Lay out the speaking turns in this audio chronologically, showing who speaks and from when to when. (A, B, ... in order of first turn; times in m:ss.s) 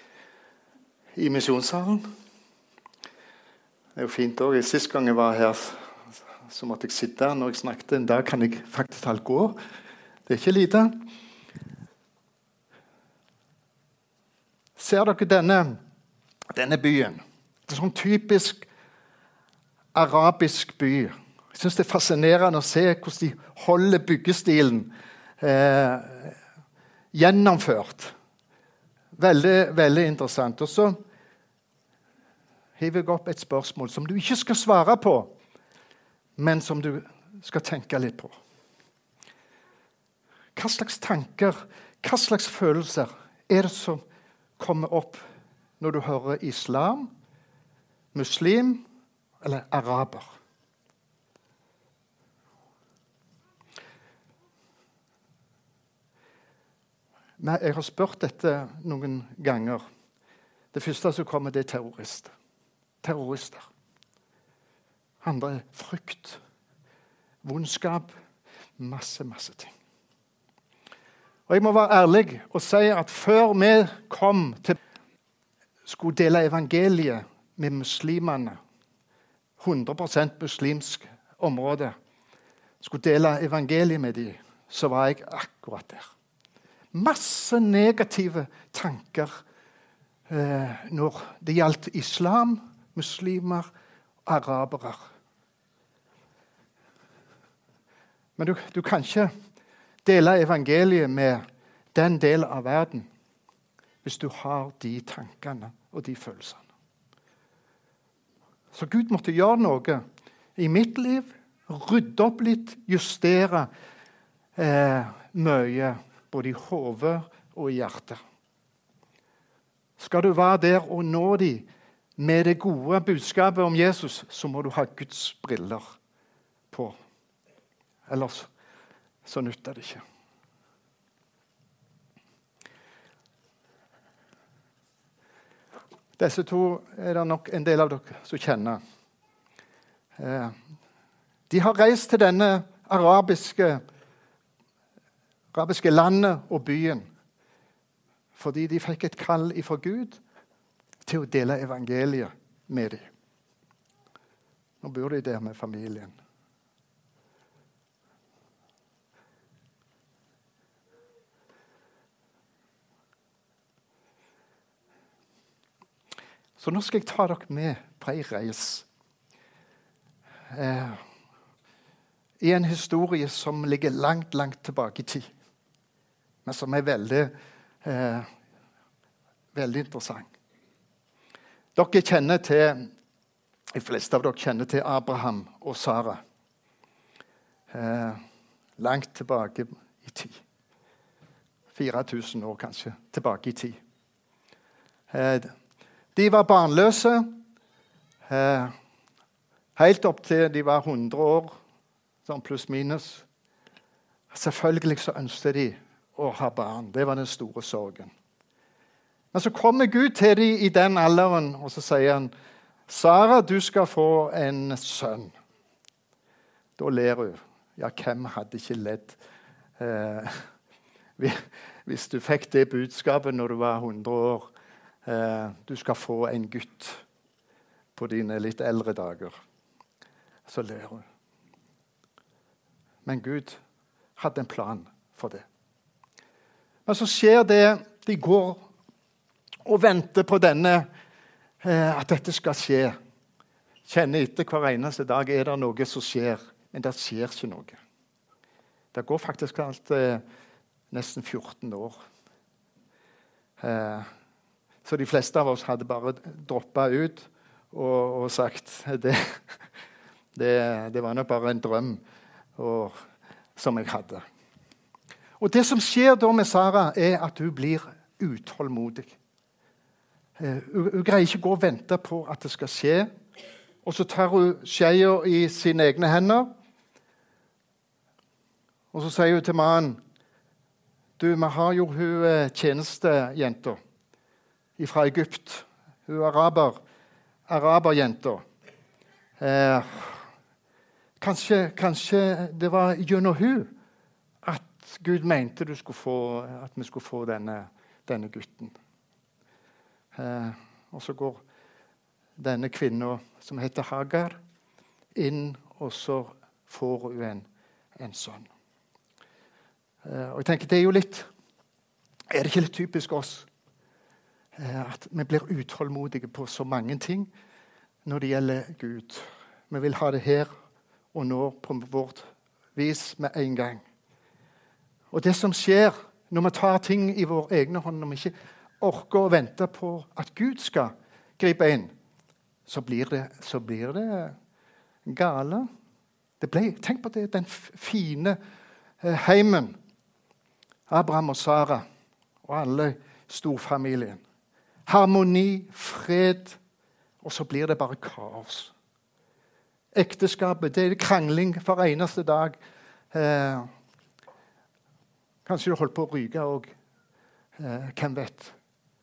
0:01.2-0:02.0 A
0:04.0-0:09.6 A
0:10.3-0:11.0 A
0:14.8-0:15.8 A
0:16.5-0:18.7 A
0:20.0-0:26.4 A
0:27.1-0:28.2 A
0:29.2-0:31.0 A
0:32.8-0:35.3 A
0:36.4-0:38.3 A
0:40.6-0:44.0 A
0:44.6-0:45.2 A
0:45.8-0:47.1 A
0:48.1-0:48.8 A
0:49.4-0:50.3 A
0:57.4-0:59.8 A
1:00.7-1:02.3 A
1:03.0-1:03.7 A
1:05.2-1:06.4 A
1:07.4-1:08.1 A
1:08.8-1:09.7 A
1:11.5-1:14.8 A
1:15.9-1:18.6 A
1:19.6-1:22.0 A
1:22.8-1:26.1 A
1:26.9-1:29.4 A
1:30.3-1:33.7 A
1:34.2-1:35.0 A
1:38.4-1:39.3 A
1:40.0-1:43.1 A
1:44.0-1:46.7 A
1:48.7-1:50.0 A
1:50.6-1:53.7 A
1:54.6-1:58.2 A
2:00.0-2:05.9 A
2:06.7-2:07.0 A
2:08.1-2:08.5 A
2:09.2-2:10.0 A
2:16.2-2:18.8 A
2:20.2-2:20.6 A
2:21.5-2:23.8 A
2:25.5-2:27.1 A
2:28.4-2:30.2 A
2:31.0-2:33.1 A
2:34.8-2:36.2 A
2:46.6-2:48.9 A
2:50.5-2:51.0 A
2:52.4-2:55.3 A
2:56.4-2:58.3 A
2:59.5-3:00.3 A
3:01.8-3:02.9 A
3:03.8-3:06.2 A
3:07.7-3:08.2 A
3:08.8-3:10.4 A
3:11.7-3:13.8 A
3:15.1-3:15.5 A
3:16.2-3:17.4 A
3:18.3-3:18.8 A
3:19.8-3:21.5 A
3:22.2-3:23.3 A
3:24.3-3:28.1 A
3:29.3-3:32.3 A
3:32.9-3:35.3 A
3:36.8-3:39.2 A
3:39.8-3:40.5 A
3:41.2-3:44.5 A
3:45.0-3:47.0 A
3:48.0-3:49.4 A
3:50.5-3:51.1 A
3:53.0-3:53.6 A
3:54.2-3:55.5 A
3:56.9-3:58.6 A
3:59.6-4:00.9 A
4:01.6-4:03.0 A
4:03.9-4:07.8 A
4:08.9-4:10.2 A
4:10.9-4:12.0 A
4:13.6-4:14.1 A
4:14.8-4:19.6 A
4:20.4-4:22.0 A
4:22.6-4:23.0 A
4:23.6-4:24.2 A
4:25.4-4:29.2 A
4:30.4-4:33.1 A
4:33.8-4:36.5 A
4:38.9-4:40.0 A
4:41.2-4:43.8 A
4:44.8-4:46.8 A
4:47.5-4:48.4 A
4:49.4-4:50.3 A
4:51.2-4:53.7 A
4:54.4-4:58.8 A
5:00.2-5:01.4 A
5:02.4-5:04.4 A
5:05.2-5:08.5 A
5:10.0-5:11.3 A
5:12.3-5:13.5 A
5:14.6-5:17.3 A
5:18.0-5:20.5 A
5:21.1-5:23.8 A
5:25.1-5:31.9 A
5:32.7-5:34.4 A
5:35.1-5:35.7 A
5:36.4-5:38.4 A
5:39.0-5:39.8 A
5:40.9-5:41.8 A
5:42.4-5:44.2 A
5:44.9-5:46.6 A
5:47.2-5:48.7 A
5:49.9-5:52.6 A
5:53.1-5:53.7 A
5:55.5-5:56.7 A
5:57.6-5:58.6 A